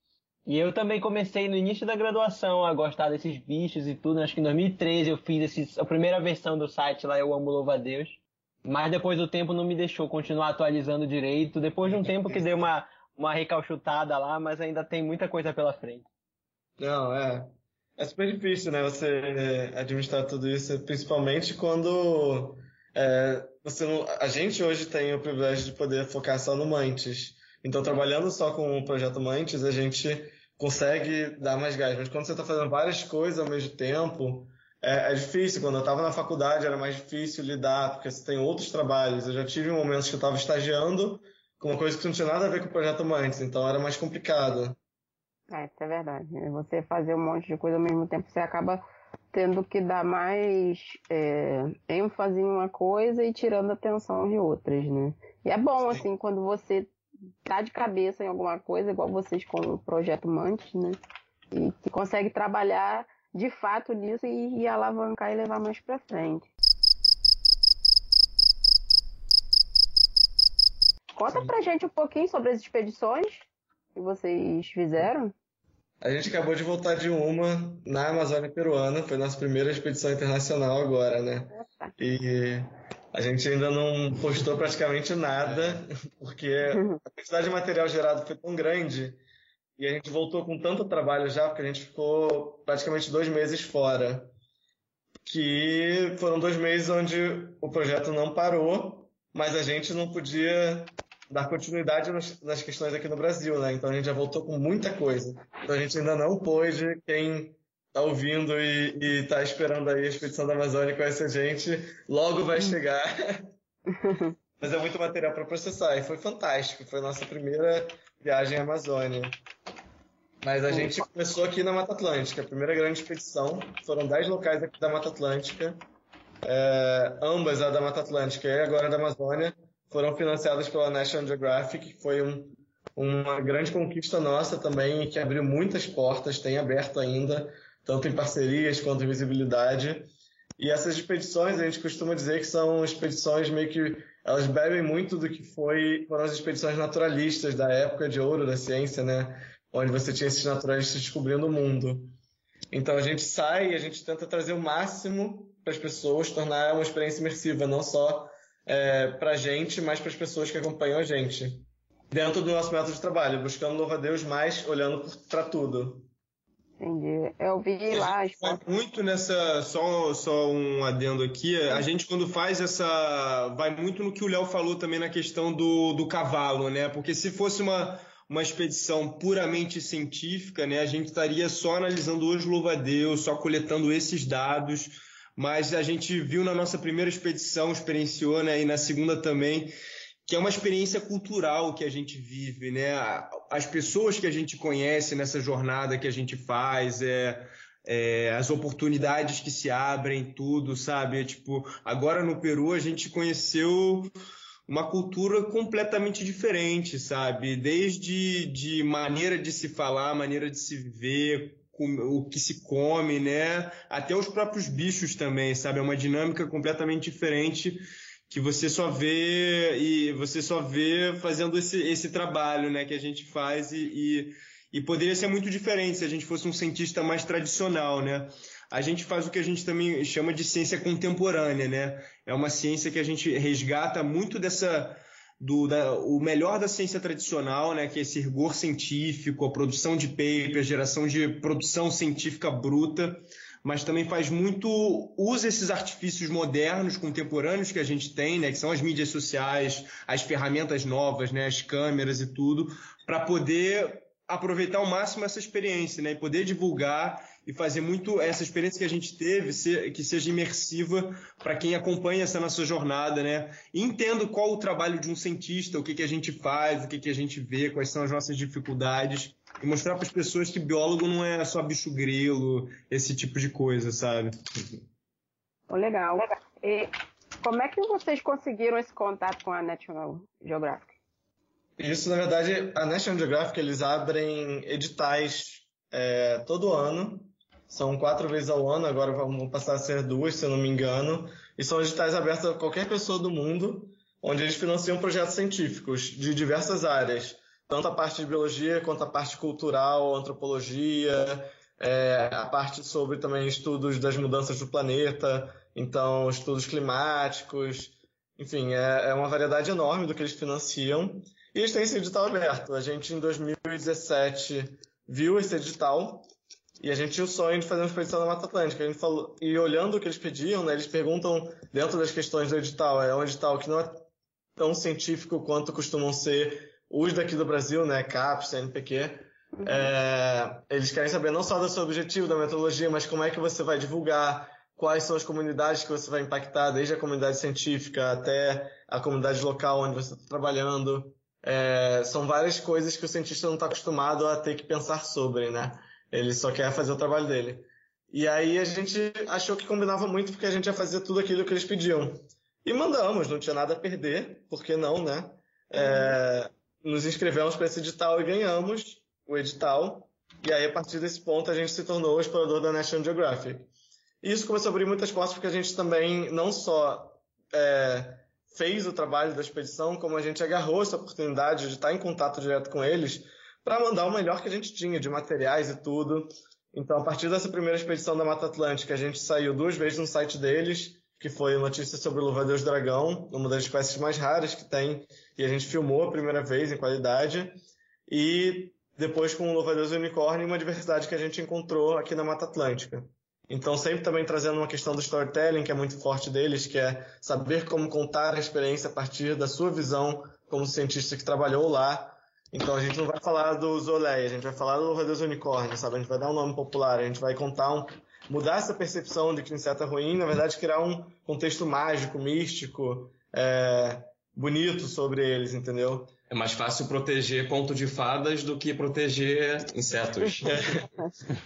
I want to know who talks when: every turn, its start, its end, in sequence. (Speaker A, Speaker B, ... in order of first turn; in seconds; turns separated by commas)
Speaker A: 0.5-16.1, Speaker B: 11.8-12.6, Speaker B: 16.8-44.8, Speaker C: 45.5-56.9, Speaker C: 57.5-61.0, Speaker C: 61.5-66.5, Speaker C: 71.2-75.3, Speaker B: 71.3-71.5, Speaker B: 76.0-89.2, Speaker C: 81.5-81.9, Speaker D: 85.5-85.8, Speaker C: 86.7-87.0, Speaker B: 89.8-94.3, Speaker B: 95.2-113.5, Speaker C: 113.9-114.3, Speaker B: 114.6-119.4, Speaker B: 120.4-125.8, Speaker C: 120.7-121.1, Speaker B: 126.4-152.1, Speaker B: 152.7-166.1, Speaker C: 166.8-168.6, Speaker D: 167.9-189.7, Speaker D: 190.3-204.1, Speaker D: 204.7-274.3, Speaker C: 275.7-276.9, Speaker C: 277.4-280.9, Speaker B: 281.8-316.3, Speaker B: 316.8-324.0, Speaker B: 324.6-363.7, Speaker C: 329.5-329.9, Speaker C: 355.8-356.2, Speaker B: 364.2-416.1, Speaker E: 416.3-420.6, Speaker B: 420.5-420.8